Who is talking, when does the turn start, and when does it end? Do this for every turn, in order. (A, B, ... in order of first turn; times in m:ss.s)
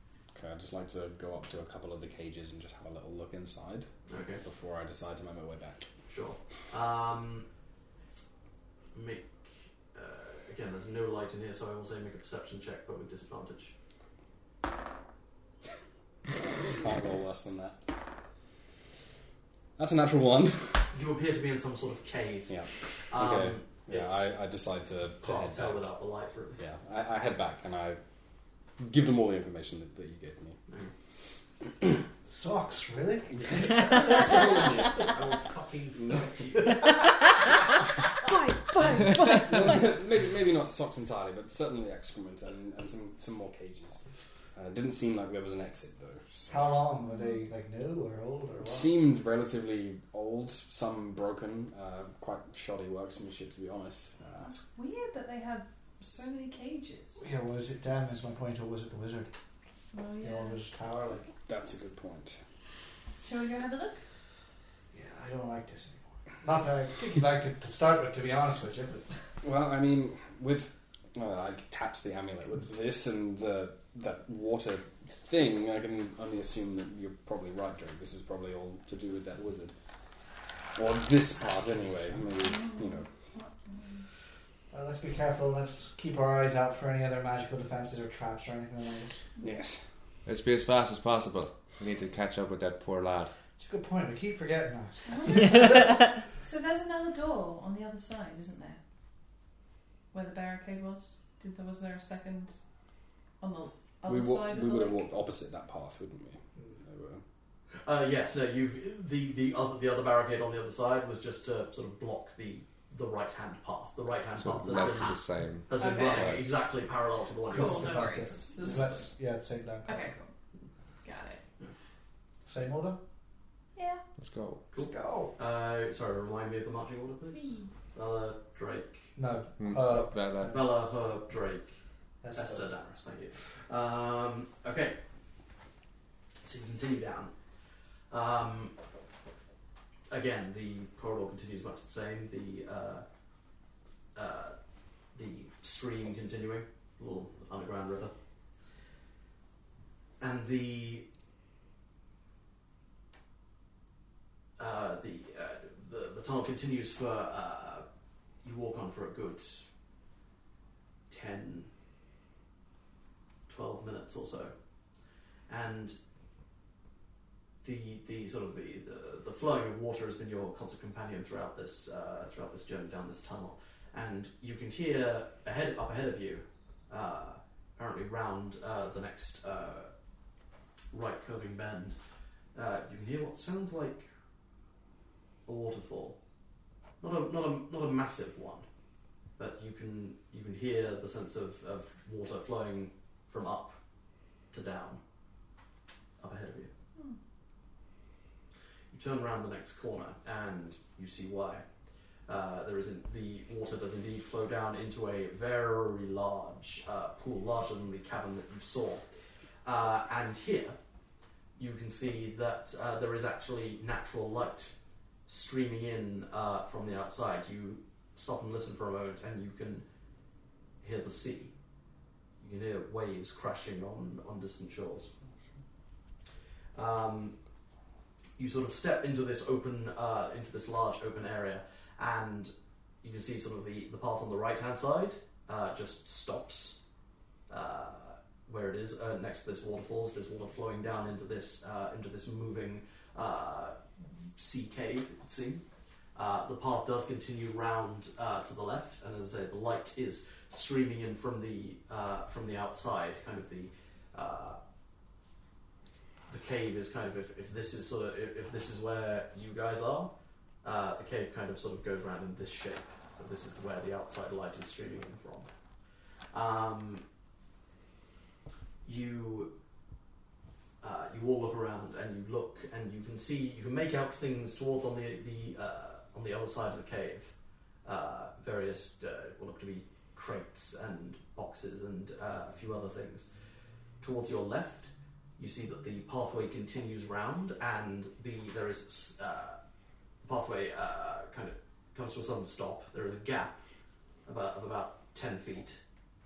0:00.4-0:03.9 A
0:04.1-0:04.4 B
0:04.4-0:05.9 A
0:06.1-0:07.5 B
0:08.9-0:13.7 B
0:16.5-0:17.8 A
0:19.8-0:20.9 A
0:20.9-0:22.5 B
0:22.5-0:25.9 A
0:23.1-0:24.3 B
0:25.2-0:26.6 B
0:26.6-0:28.0 A
0:28.8-0:30.6 A
0:32.2-0:34.5 C
0:33.3-0:35.2 A
0:35.0-0:36.9 B
0:36.0-0:36.6 A
0:38.2-0:39.9 D
0:39.2-0:44.0 A
0:44.6-0:46.5 A
0:46.5-0:49.0 C
0:47.1-0:47.4 E
0:48.6-0:54.6 A
0:54.4-0:57.2 E
0:57.2-0:59.3 C
0:59.9-1:00.6 E
1:00.2-1:01.3 C
1:01.5-1:02.4 A
1:03.2-1:04.0 E
1:04.9-1:09.1 C
1:09.4-1:19.7 A
1:20.7-1:23.1 A
1:22.4-1:24.0 E
1:24.7-1:29.2 C
1:29.4-1:29.8 A
1:30.3-1:33.3 F
1:33.6-1:35.9 C
1:35.1-1:38.8 E
1:35.3-1:36.2 D
1:40.1-1:42.5 E
1:43.4-1:45.1 E
1:44.0-1:47.2 A
1:47.8-1:58.9 B
1:54.4-1:56.5 F
1:55.8-1:56.3 E
1:57.5-2:00.1 C
1:57.5-1:59.1 E
1:59.9-2:00.3 E
2:01.0-2:01.4 E
2:02.4-2:03.0 C
2:03.8-2:04.0 E
2:04.2-2:04.6 F
2:04.7-2:09.1 B
2:04.8-2:05.3 C
2:07.3-2:07.7 E
2:09.2-2:10.6 C
2:09.6-2:10.6 F
2:10.4-2:11.8 B
2:12.2-2:12.7 C
2:12.4-2:15.0 B
2:16.4-2:17.3 B
2:18.1-2:18.7 B
2:20.1-2:23.0 B
2:24.2-2:24.6 B
2:25.1-2:28.1 B
2:30.2-2:31.0 B
2:34.6-2:37.8 B
2:38.4-2:39.7 B
2:41.1-2:41.7 B
2:43.5-2:44.6 B
2:45.5-2:46.0 B
2:47.6-2:59.9 B
3:00.9-3:02.0 B
3:02.6-3:04.1 B
3:05.4-3:06.2 B
3:07.0-3:08.7 B
3:09.4-3:13.8 B
3:14.5-3:15.0 B
3:16.2-3:16.7 B
3:18.9-3:21.6 B
3:22.3-3:29.1 B
3:29.6-3:30.8 B
3:31.6-3:34.7 B
3:35.3-3:39.8 B
3:40.8-3:41.5 B
3:42.4-3:45.1 B
3:46.7-3:47.4 B
3:48.4-3:56.8 B
3:57.5-4:03.8 B
4:04.4-4:05.6 B
4:06.2-4:14.6 B
4:16.3-4:20.1 B
4:20.6-4:25.5 B
4:26.3-4:27.0 B
4:28.8-4:29.5 B
4:30.8-4:43.3 B
4:44.0-4:49.6 B
4:50.2-4:53.6 B
4:54.3-4:55.8 B